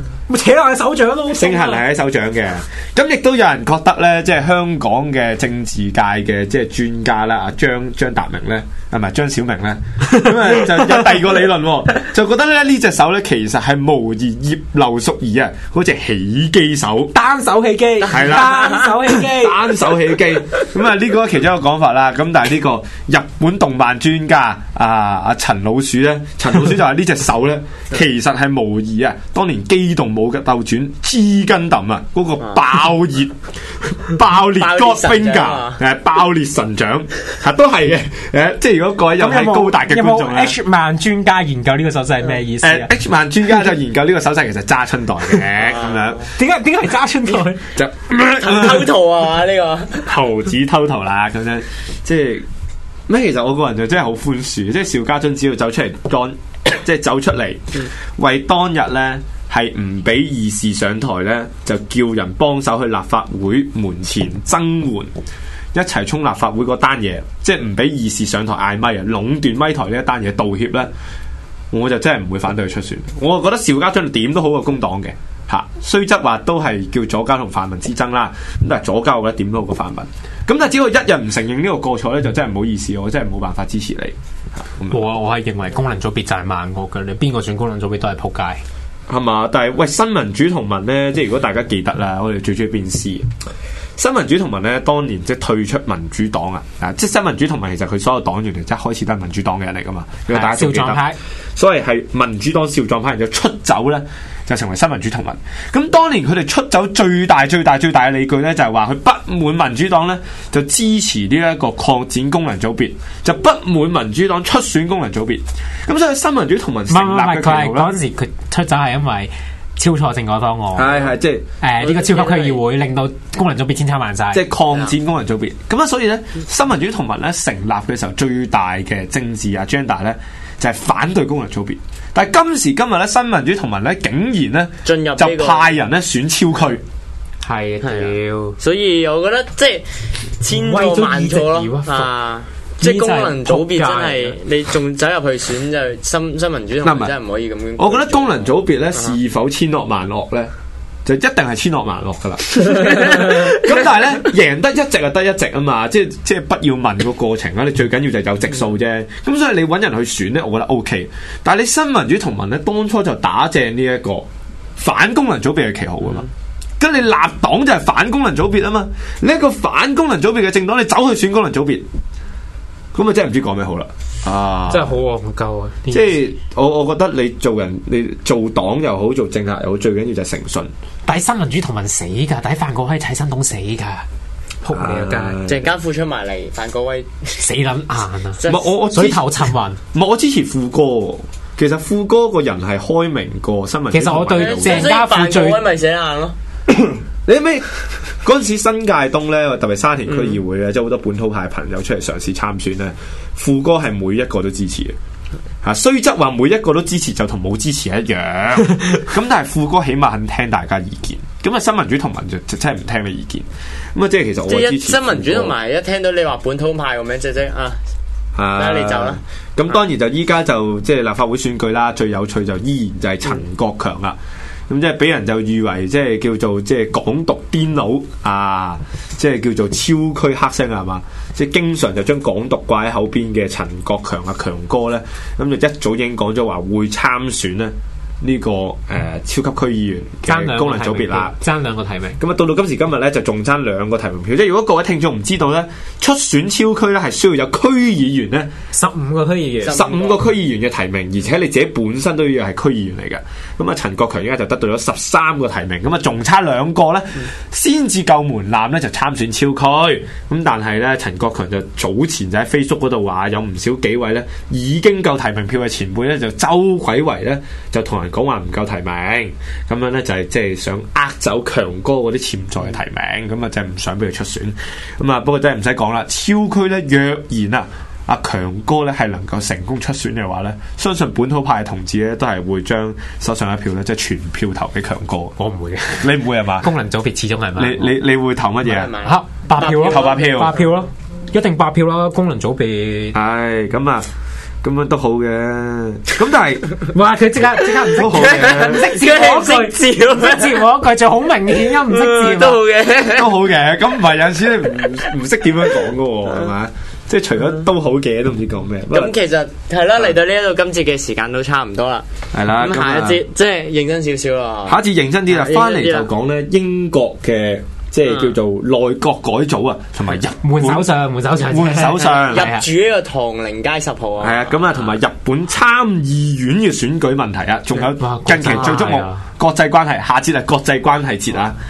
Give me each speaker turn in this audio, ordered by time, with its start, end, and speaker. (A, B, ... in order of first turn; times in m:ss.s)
0:00.3-0:01.8 A
0:01.3-0:17.1 B
0:10.8-0:11.1 A
0:17.1-0:19.7 A
0:18.1-0:33.4 B
0:18.4-0:18.9 C
0:34.0-0:40.6 B
0:34.6-0:35.8 C
0:39.2-0:42.9 A
0:42.6-0:46.3 B
0:45.6-0:46.2 C
0:46.4-0:47.7 A
0:47.8-0:48.9 B
0:48.1-0:50.1 C
0:50.0-0:52.5 B
0:53.1-1:05.1 B
1:05.7-1:10.9 B
1:11.7-1:25.0 B
1:24.9-1:28.6 A
1:29.1-1:33.3 B
1:34.0-1:57.9 B
1:40.3-1:41.2 A
1:56.9-2:01.1 A
2:00.8-2:01.4 B
2:01.6-2:04.4 A
2:01.8-2:02.6 C
2:04.3-2:16.8 B
2:14.8-2:15.7 C
2:17.4-2:18.6 A
2:17.8-2:29.2 C
2:20.5-2:22.1 A
2:22.8-2:24.4 A
2:26.8-2:27.1 B
2:27.8-2:30.5 B
2:31.1-2:46.3 B
2:46.8-2:51.9 B
2:52.9-2:55.0 B
2:54.7-2:56.2 A
2:55.9-3:00.7 B
3:01.1-3:04.1 A
3:04.6-3:05.4 A
3:04.7-3:05.7 B
3:05.5-3:07.5 C
3:07.4-3:09.8 A
3:08.4-3:08.7 C
3:08.5-3:09.4 B
3:09.9-3:14.9 B
3:13.9-3:15.6 A
3:14.3-3:16.4 C
3:17.3-3:17.7 B
3:18.2-3:25.0 B
3:20.1-3:20.4 C
3:25.6-3:35.6 B
3:34.5-3:37.8 C
3:38.4-3:44.2 B
3:38.6-3:39.2 C
3:44.7-4:01.4 B
4:00.3-4:02.2 A
4:02.2-4:08.5 B
4:08.7-4:09.9 A
4:09.6-4:10.2 C
4:09.7-4:45.4 B
4:45.4-4:48.0 A
4:45.9-4:46.7 B
4:47.6-4:48.9 B
4:48.6-4:50.6 C
4:49.0-4:53.2 A
4:49.6-4:50.6 B
4:53.1-4:54.1 B
4:54.6-4:56.9 B
4:56.9-5:02.6 A
4:57.9-4:58.8 B
4:58.0-5:00.7 C
5:01.6-5:03.3 C
5:03.1-5:09.1 B
5:08.9-5:12.1 C
5:12.3-5:13.2 B
5:12.6-5:16.1 C
5:14.7-5:22.5 B
5:18.1-5:18.4 C
5:20.4-5:22.7 A
5:22.3-5:24.9 C
5:24.2-5:31.6 B
5:27.7-5:29.2 A